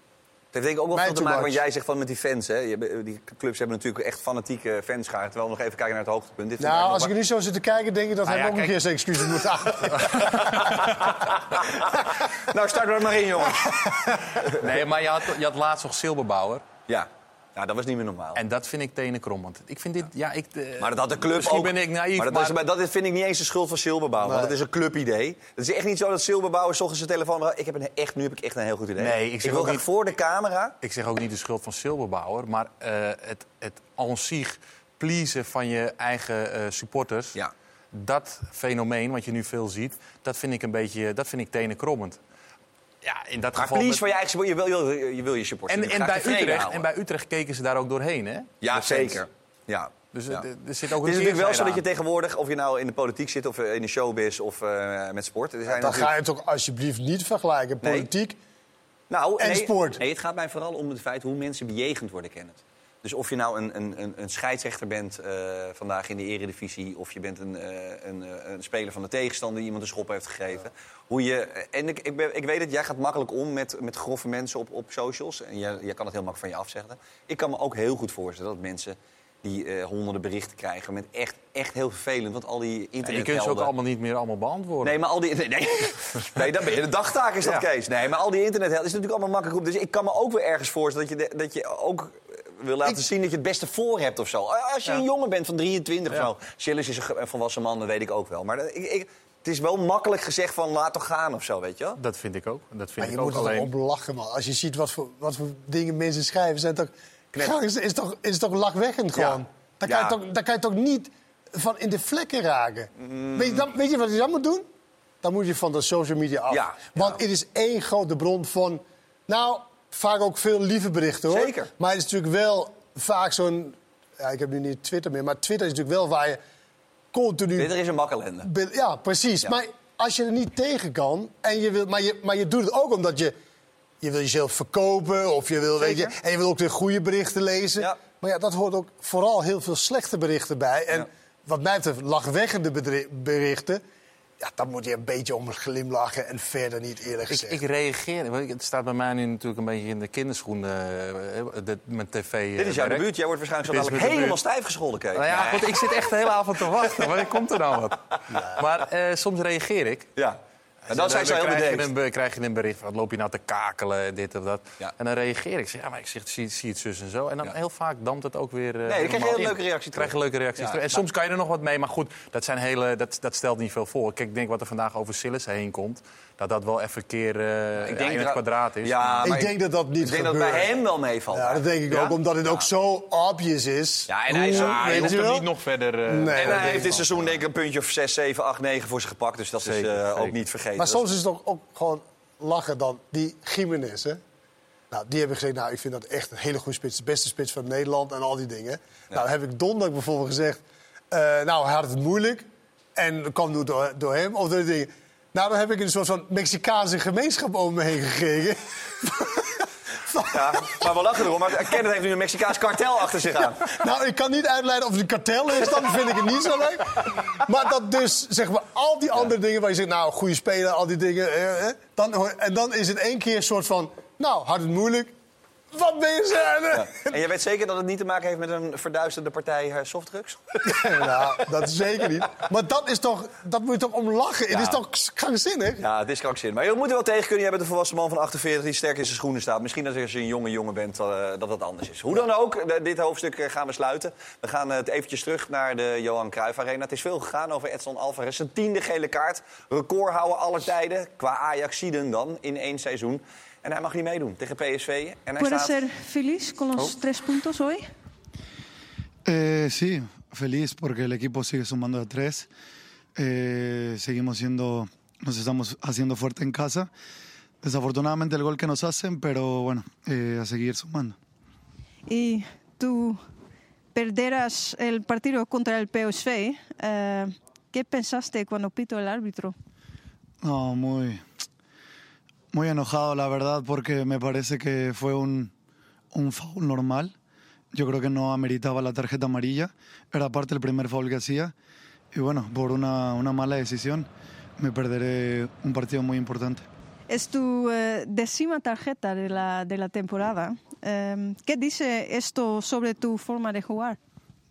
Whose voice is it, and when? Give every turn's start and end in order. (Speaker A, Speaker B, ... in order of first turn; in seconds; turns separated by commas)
Speaker A: 0.5-7.1, Speaker B: 0.9-1.6, Speaker B: 6.6-10.4, Speaker C: 8.2-8.8, Speaker C: 10.1-11.1, Speaker A: 10.9-14.7, Speaker C: 14.5-16.6, Speaker A: 16.9-18.4, Speaker C: 18.4-22.6, Speaker A: 20.8-30.8, Speaker B: 24.2-24.5, Speaker C: 29.0-29.9, Speaker C: 30.8-37.4, Speaker C: 37.9-42.2, Speaker C: 43.0-44.0, Speaker A: 43.6-46.9, Speaker C: 45.7-49.2, Speaker A: 48.6-50.5, Speaker C: 50.1-51.8, Speaker A: 51.0-56.1, Speaker B: 55.7-58.4, Speaker A: 57.8-58.1, Speaker A: 59.1-83.7, Speaker B: 59.4-60.0, Speaker C: 83.0-85.0, Speaker A: 84.8-102.0, Speaker C: 102.0-103.7, Speaker B: 103.0-114.7, Speaker A: 109.1-110.2, Speaker A: 113.0-113.7, Speaker B: 115.2-126.4, Speaker A: 116.5-117.2, Speaker A: 121.3-121.7, Speaker B: 127.1-127.7, Speaker A: 127.6-128.5, Speaker B: 128.4-133.3, Speaker B: 134.0-143.8, Speaker A: 135.8-136.1, Speaker B: 144.4-147.6, Speaker C: 147.3-153.1, Speaker A: 152.6-155.8, Speaker C: 153.7-154.4, Speaker C: 155.2-160.1, Speaker A: 160.2-161.9, Speaker C: 160.9-179.3, Speaker A: 168.9-171.0, Speaker A: 177.8-181.6, Speaker B: 179.2-180.7, Speaker B: 181.3-185.5, Speaker C: 181.9-182.2, Speaker A: 184.1-185.2, Speaker C: 184.3-187.4, Speaker B: 186.1-187.0, Speaker A: 186.3-191.0, Speaker C: 189.6-190.3, Speaker B: 190.8-194.2, Speaker B: 194.9-209.5, Speaker B: 210.1-210.8, Speaker A: 210.3-213.7, Speaker B: 213.7-225.1, Speaker B: 225.7-227.2, Speaker A: 226.7-230.9, Speaker B: 230.6-235.8, Speaker A: 234.5-234.8, Speaker A: 235.8-255.8, Speaker D: 255.4-257.9, Speaker E: 259.3-262.5, Speaker E: 263.2-266.9, Speaker E: 267.6-271.2, Speaker D: 272.1-273.2, Speaker D: 273.9-279.6, Speaker E: 280.4-281.2, Speaker E: 282.5-285.5, Speaker E: 286.1-287.1, Speaker E: 287.7-291.5, Speaker E: 292.1-296.6, Speaker D: 297.1-304.0